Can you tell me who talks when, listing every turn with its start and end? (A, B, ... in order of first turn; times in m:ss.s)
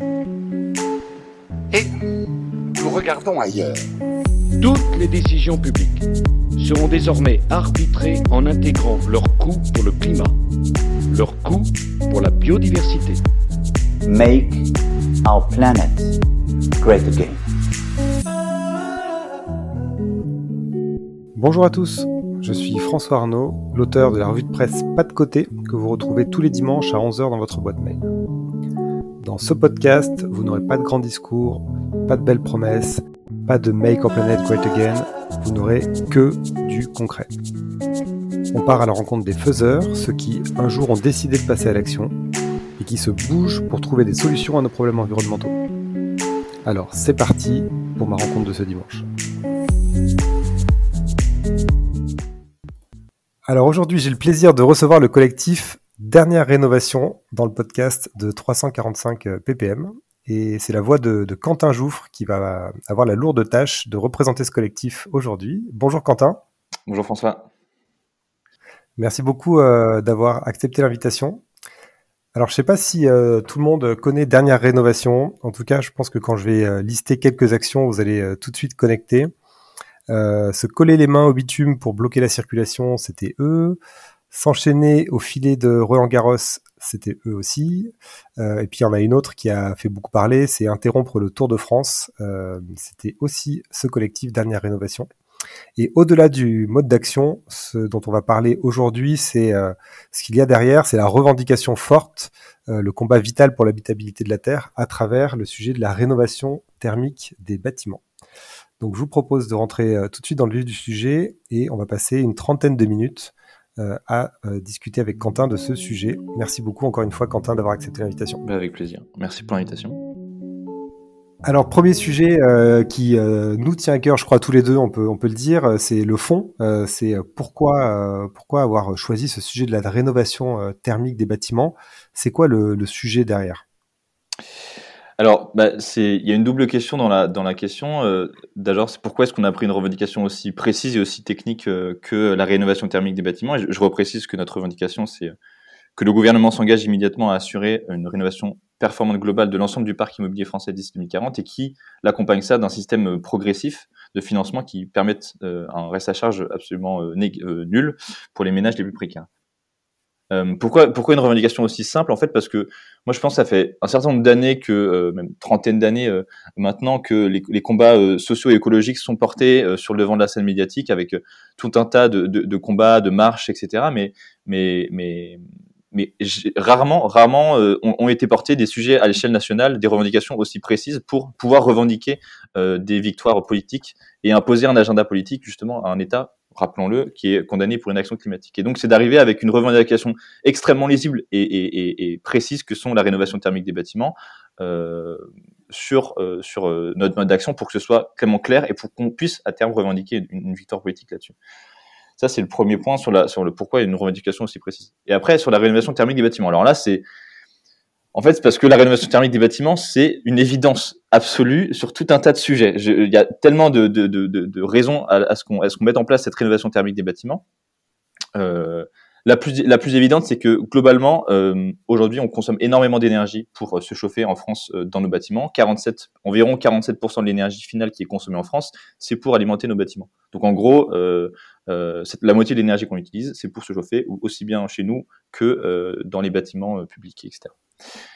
0:01.7-0:03.8 A
0:04.6-0:06.0 B
0:06.6-0:10.3 B
0:11.1-0:13.2 B
0:14.0-0:14.7 C
0:15.2-0:16.2 C
0:16.8-0:17.4 C
0:21.3-0:28.1 D
0:29.2-0:37.3 D
0:38.5-0:42.2 D
0:42.8-0:45.6 D
0:46.6-0:49.0 D
0:53.5-1:06.4 D
1:06.9-1:07.4 E
1:09.0-1:11.4 D
1:12.3-1:19.3 D
1:20.1-1:23.8 D
1:24.3-1:35.1 D
1:35.8-1:48.0 D
1:48.8-1:58.4 D
1:58.4-2:00.0 E
2:01.4-2:13.6 D
2:15.2-2:25.3 E
2:26.0-2:39.3 E
2:40.3-2:55.4 E
2:55.9-3:21.3 E
3:22.2-3:27.0 E
3:28.1-3:37.4 E
3:38.3-3:57.5 E